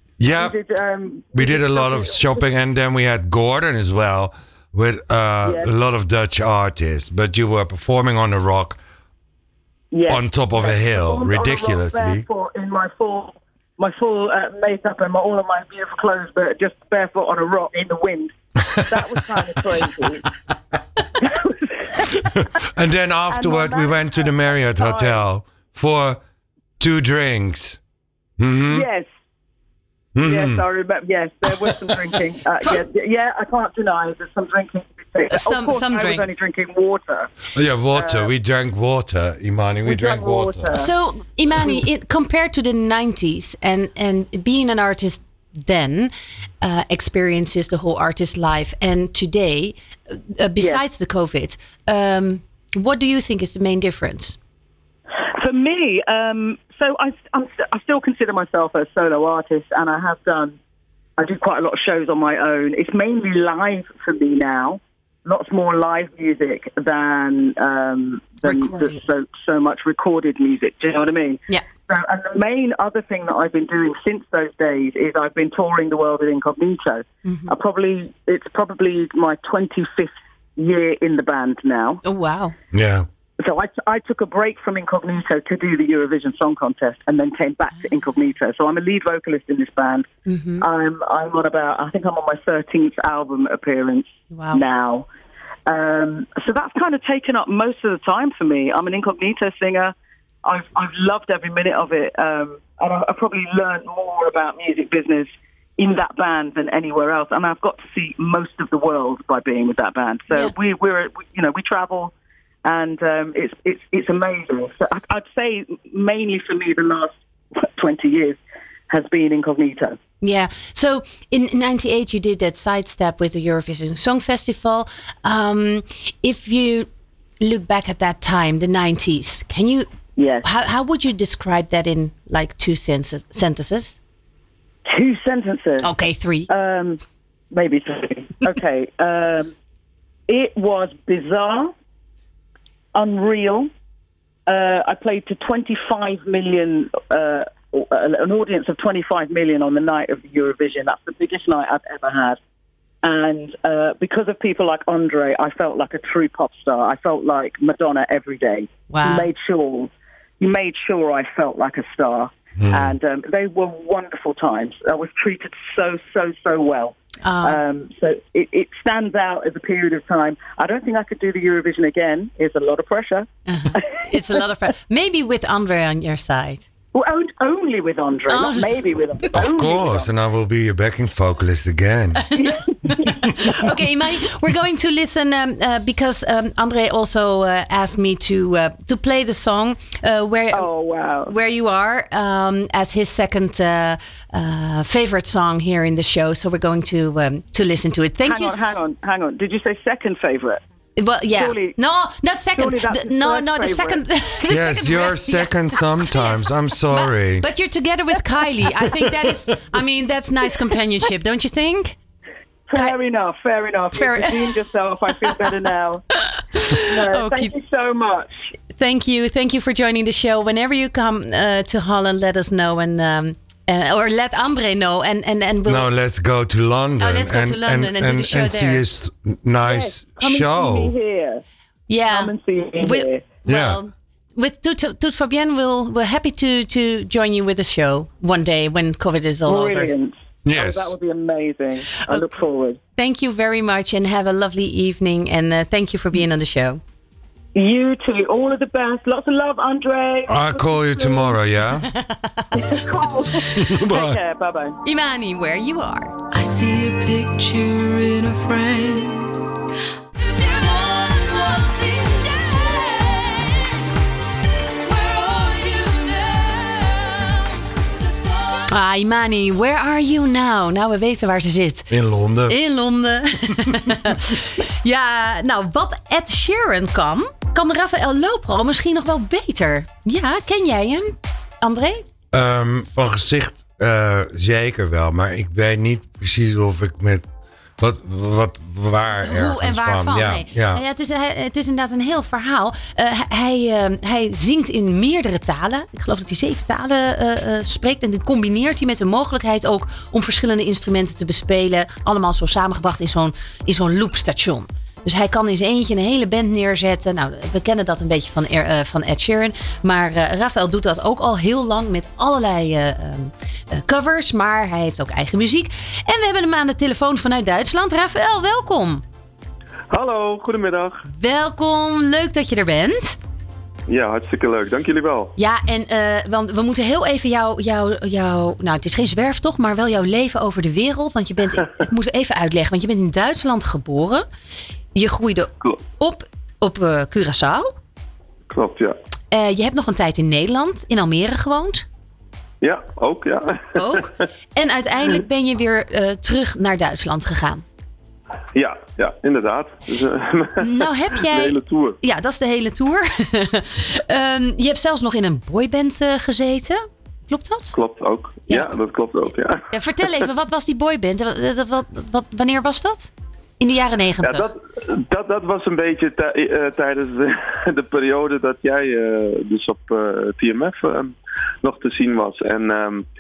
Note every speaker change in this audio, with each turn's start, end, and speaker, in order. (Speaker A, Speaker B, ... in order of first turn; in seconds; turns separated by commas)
Speaker A: 0.2-0.6, Speaker B: 0.3-2.5, Speaker A: 1.3-8.8, Speaker B: 5.4-5.7, Speaker B: 9.9-18.3, Speaker A: 10.1-12.3, Speaker B: 18.9-20.2, Speaker B: 21.2-22.1, Speaker A: 22.4-26.2, Speaker B: 23.3-25.2, Speaker A: 26.8-27.8, Speaker A: 28.4-28.9, Speaker B: 28.7-29.1, Speaker A: 30.1-30.6, Speaker B: 30.2-38.3, Speaker A: 31.6-31.9, Speaker C: 35.3-36.3, Speaker A: 37.5-40.7, Speaker B: 39.9-40.9, Speaker C: 40.7-54.4, Speaker B: 55.4-60.6, Speaker B: 61.2-82.0, Speaker C: 68.5-69.0, Speaker C: 77.2-77.5, Speaker C: 82.0-82.5, Speaker A: 82.7-83.1, Speaker B: 83.4-90.1, Speaker C: 90.3-90.6, Speaker B: 90.6-95.1, Speaker C: 94.3-94.6, Speaker B: 95.7-112.1, Speaker B: 112.7-117.1, Speaker B: 117.8-118.4, Speaker B: 118.9-120.0, Speaker C: 120.2-126.9, Speaker C: 127.4-129.9, Speaker B: 130.2-130.5, Speaker C: 130.4-134.0, Speaker B: 134.9-135.9, Speaker C: 135.8-136.5, Speaker B: 136.5-139.5, Speaker B: 140.3-141.7, Speaker B: 142.9-143.7, Speaker B: 144.5-152.4, Speaker B: 153.0-174.4, Speaker C: 158.9-159.3, Speaker A: 162.6-162.9, Speaker C: 167.2-167.6, Speaker C: 173.5-176.7, Speaker B: 176.9-180.1, Speaker C: 178.3-178.7, Speaker A: 179.3-182.2, Speaker B: 182.3-183.7, Speaker C: 182.3-190.7, Speaker B: 190.5-191.3, Speaker C: 191.3-198.8, Speaker B: 198.2-200.6, Speaker C: 201.0-212.0, Speaker B: 201.3-201.8, Speaker B: 202.6-204.0, Speaker A: 204.5-207.4, Speaker B: 212.7-216.1, Speaker C: 213.9-214.6, Speaker C: 216.3-217.5, Speaker B: 216.8-218.3, Speaker C: 218.8-225.9, Speaker A: 225.7-230.9, Speaker C: 227.0-228.8, Speaker B: 229.6-231.4, Speaker C: 231.9-239.9, Speaker B: 232.1-233.3, Speaker A: 233.5-233.8, Speaker B: 239.5-242.8, Speaker A: 240.4-240.9, Speaker C: 243.0-246.8, Speaker B: 247.6-251.4, Speaker A: 250.3-251.9, Speaker C: 251.9-252.7, Speaker B: 252.5-254.8, Speaker A: 253.6-254.2, Speaker C: 254.8-256.1, Speaker D: 256.3-259.3, Speaker D: 260.1-263.7, Speaker D: 264.8-268.7, Speaker C: 268.7-271.9, Speaker A: 271.9-272.6, Speaker C: 272.5-282.0, Speaker A: 282.3-287.2, Speaker A: 287.8-290.8, Speaker C: 289.2-319.0, Speaker E: 319.9-321.0, Speaker C: 321.1-323.2, Speaker E: 323.9-325.3, Speaker C: 325.4-334.3, Speaker C: 334.9-337.7, Speaker E: 338.5-338.9, Speaker C: 339.3-341.9, Speaker E: 342.6-344.2, Speaker C: 343.8-347.6, Speaker E: 348.6-352.0, Speaker C: 350.6-357.8, Speaker E: 357.7-360.2, Speaker C: 358.5-358.8, Speaker C: 359.7-364.5, Speaker E: 364.2-373.1